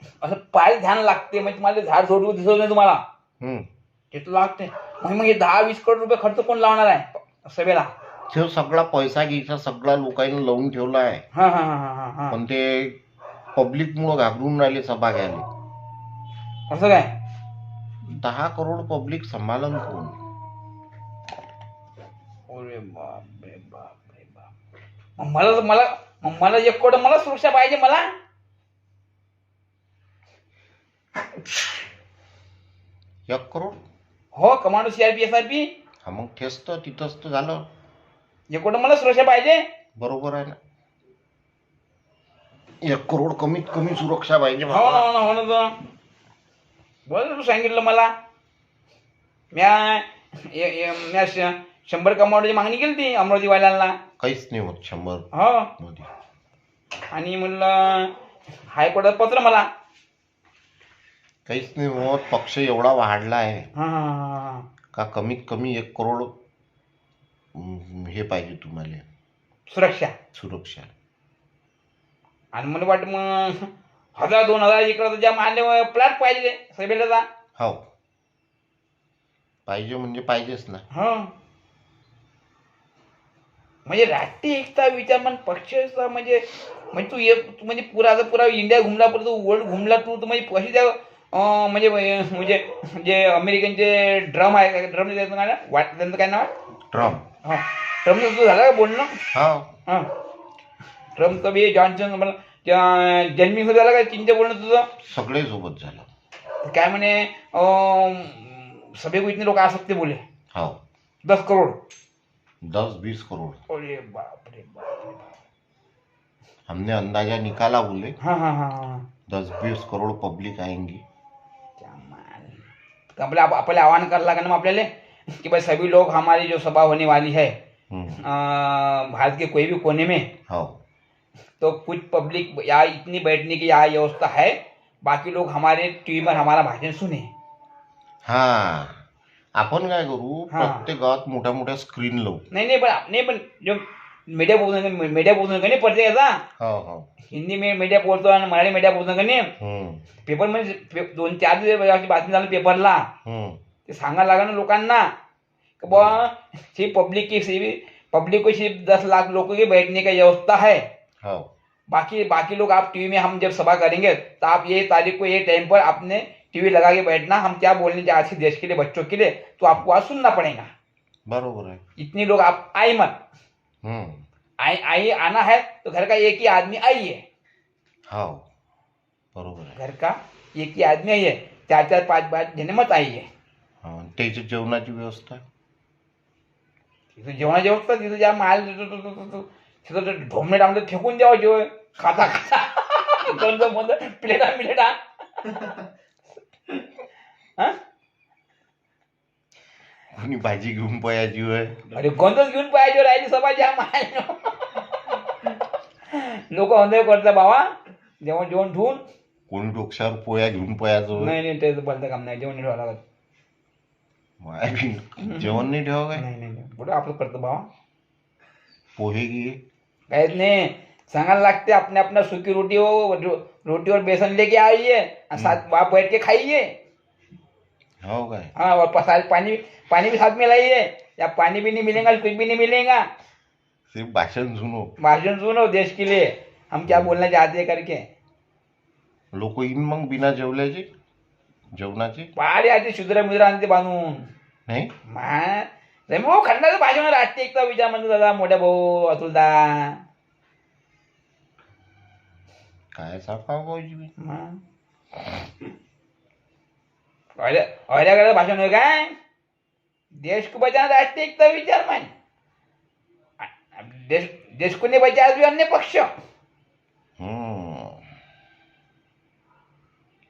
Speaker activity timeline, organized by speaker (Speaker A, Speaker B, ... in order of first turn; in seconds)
Speaker A: 0.2-3.0, 4.1-7.9, 11.3-12.4, 16.7-17.1, 22.5-24.4, 25.2-28.1, 34.3-35.7, 38.5-39.6, 44.7-45.8, 47.1-48.1, 49.5-54.0, 55.3-55.7, 57.1-58.1, 58.7-59.7, 63.8-64.7, 69.7-70.1, 72.5-77.2, 80.9-81.3, 83.9-96.5, 97.4-99.2, 101.2-104.9, 106.6-110.2, 111.2-111.8, 113.7-115.3, 118.2-119.0, 121.8-122.6, 123.2-127.5, 128.2-130.3, 131.6-137.3, 140.5-140.8, 142.5-146.4, 147.3-149.5, 150.2-153.1, 153.8-155.1, 155.8-160.8, 161.9-170.7, 172.0-173.2, 174.6-177.2, 179.8-183.3, 187.2-195.7, 201.9-205.2, 206.1-209.0, 211.2-213.0, 215.2-215.6, 216.2-217.7, 220.1-226.7, 228.6-233.1, 235.0-238.0, 242.4-244.3, 245.1-250.0, 254.2-254.6, 257.4-259.1, 260.1-262.1, 263.4-266.1
Speaker B: 3.4-3.6, 8.3-11.2, 12.3-13.0, 13.5-15.4, 18.0-20.2, 33.3-33.8, 36.0-37.6, 40.0-40.6, 42.8-45.0, 54.2-55.3, 55.8-56.1, 61.5-63.7, 64.9-66.3, 67.5-69.0, 70.3-70.9, 77.6-77.8, 79.7-80.8, 96.9-97.2, 99.3-99.7, 105.0-106.1, 110.5-110.8, 112.6-113.6, 116.7-118.1, 119.3-121.0, 127.9-128.2, 130.5-130.8, 138.2-139.0, 139.6-142.4, 146.6-147.1, 149.6-150.0, 153.2-153.6, 155.9-156.2, 161.2-161.5, 171.3-171.8, 173.8-174.2, 178.1-178.4, 179.3-179.8, 183.8-185.4, 200.1-201.9, 209.5-211.3, 214.4-216.2, 218.9-219.6, 228.0-228.5, 233.9-234.9, 236.9-237.2, 239.3-240.8, 241.7-242.3, 244.7-244.9, 252.9-254.1, 267.2-268.0